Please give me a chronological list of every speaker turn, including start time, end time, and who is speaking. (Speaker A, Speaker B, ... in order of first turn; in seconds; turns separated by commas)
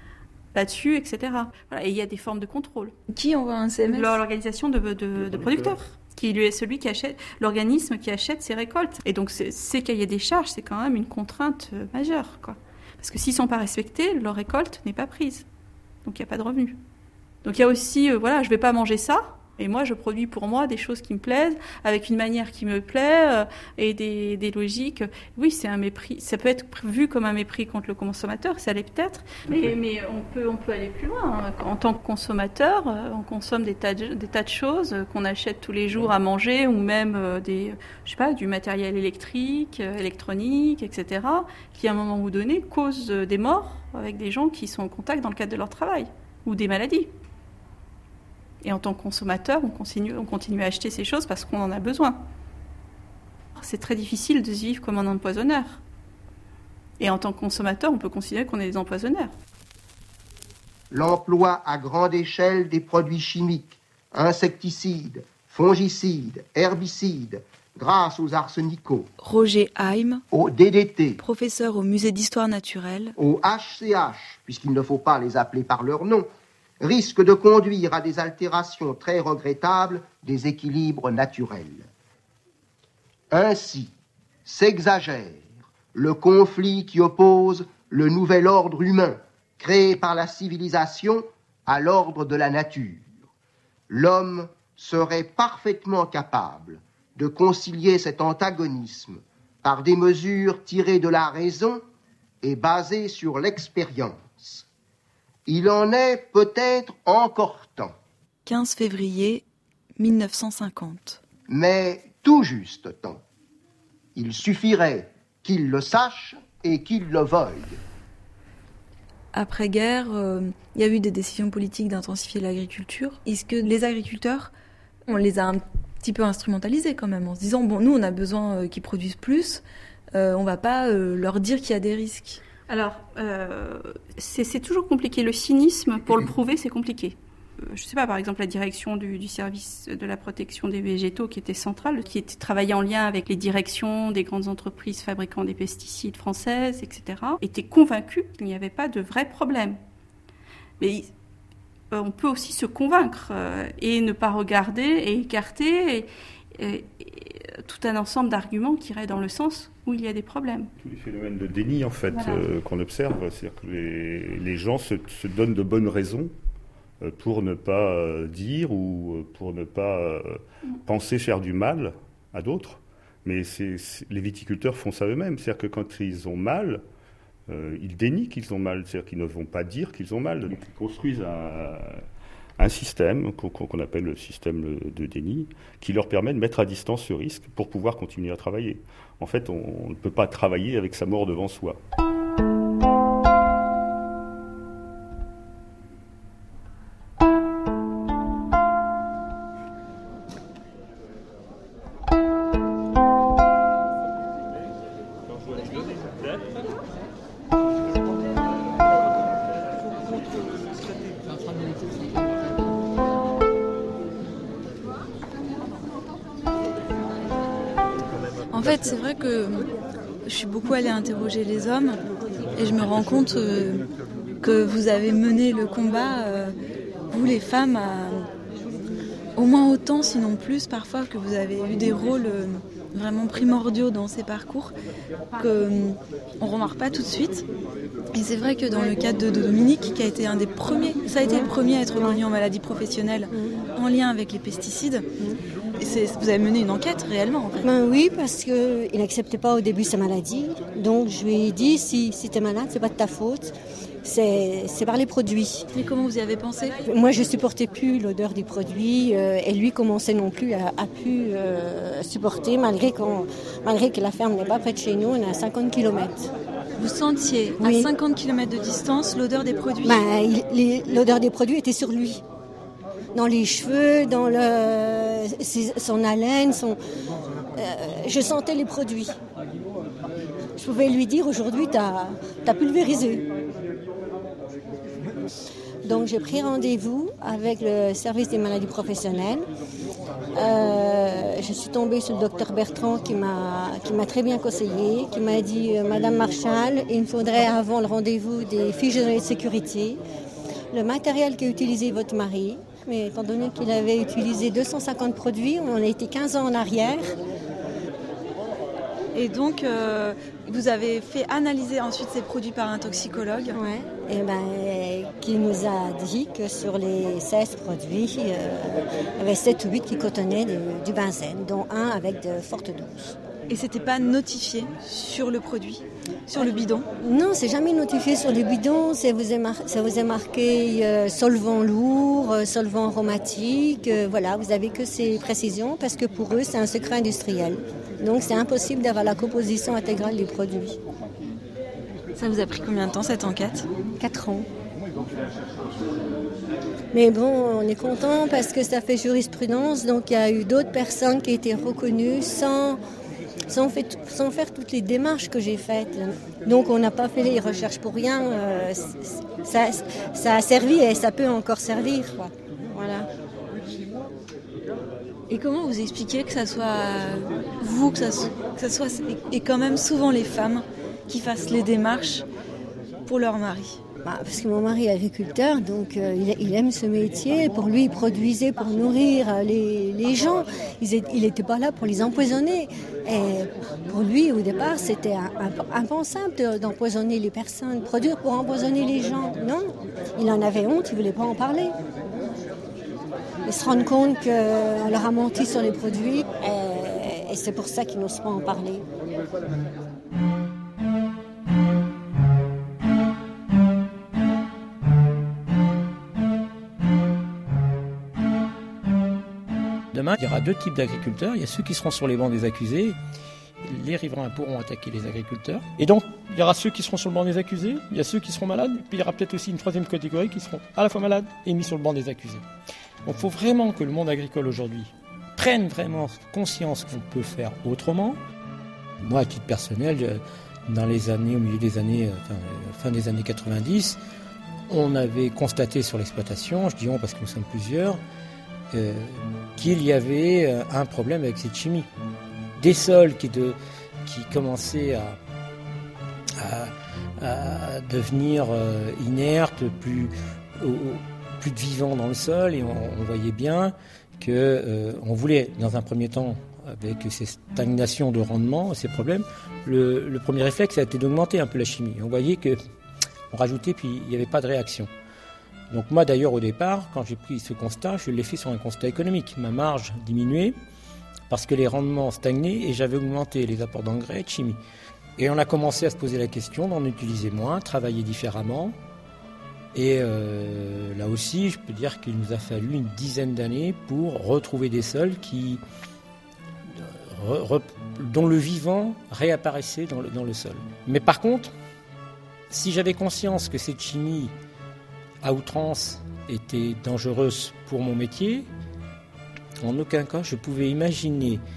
Speaker A: 0.5-3.0, Speaker B: 3.1-4.2, Speaker A: 3.9-15.5, Speaker A: 16.0-16.8, Speaker A: 17.4-47.1, Speaker A: 48.6-52.2, Speaker A: 53.6-55.8, Speaker A: 57.0-59.3, Speaker C: 60.9-69.1, Speaker B: 69.2-70.2, Speaker C: 70.3-71.2, Speaker B: 71.2-73.2, Speaker C: 73.2-76.3, Speaker C: 76.8-81.9, Speaker C: 83.3-83.9, Speaker C: 84.5-93.1, Speaker C: 93.9-101.8, Speaker C: 102.4-104.7, Speaker C: 105.5-107.9, Speaker B: 108.5-109.4, Speaker B: 110.0-111.2, Speaker C: 111.5-113.2, Speaker C: 114.2-117.8, Speaker B: 119.3-124.5, Speaker B: 125.1-132.4, Speaker A: 132.7-149.8, Speaker A: 150.8-151.1, Speaker A: 151.9-160.7, Speaker D: 160.8-166.3, Speaker A: 162.1-162.4, Speaker D: 167.0-170.3, Speaker D: 170.9-176.8, Speaker D: 177.5-181.9, Speaker D: 182.6-191.8, Speaker B: 218.5-219.7, Speaker B: 220.2-222.0, Speaker B: 222.5-223.8, Speaker B: 224.4-226.6, Speaker B: 227.1-228.3, Speaker B: 229.4-234.7, Speaker B: 235.4-237.4, Speaker B: 238.1-245.1, Speaker E: 241.2-242.2, Speaker B: 245.8-247.7, Speaker E: 247.6-255.7, Speaker B: 255.7-256.8, Speaker E: 256.8-266.3, Speaker B: 266.8-270.0, Speaker E: 267.6-267.9, Speaker E: 269.8-272.2, Speaker E: 273.1-276.8, Speaker E: 277.6-279.1, Speaker E: 280.6-283.2, Speaker E: 285.9-289.5, Speaker E: 290.3-300.0, Speaker E: 300.7-307.1, Speaker B: 309.1-313.6, Speaker E: 313.6-323.1, Speaker B: 323.5-326.9, Speaker E: 327.0-340.8, Speaker B: 342.1-343.7, Speaker E: 344.0-344.5, Speaker E: 346.9-352.8, Speaker E: 353.5-363.1, Speaker B: 365.3-372.2, Speaker B: 373.0-373.8, Speaker E: 374.1-391.7, Speaker E: 393.4-398.9, Speaker F: 409.9-413.0, Speaker F: 413.6-422.4, Speaker F: 423.1-428.2, Speaker F: 429.0-434.0, Speaker F: 434.7-438.0, Speaker F: 438.7-441.9, Speaker F: 442.6-445.2, Speaker F: 446.4-462.6, Speaker F: 463.3-464.9, Speaker F: 465.7-470.6, Speaker F: 471.3-474.6, Speaker F: 475.2-478.8, Speaker F: 479.7-485.6, Speaker F: 486.7-491.5, Speaker F: 492.5-494.3, Speaker F: 495.2-498.5, Speaker F: 499.6-501.4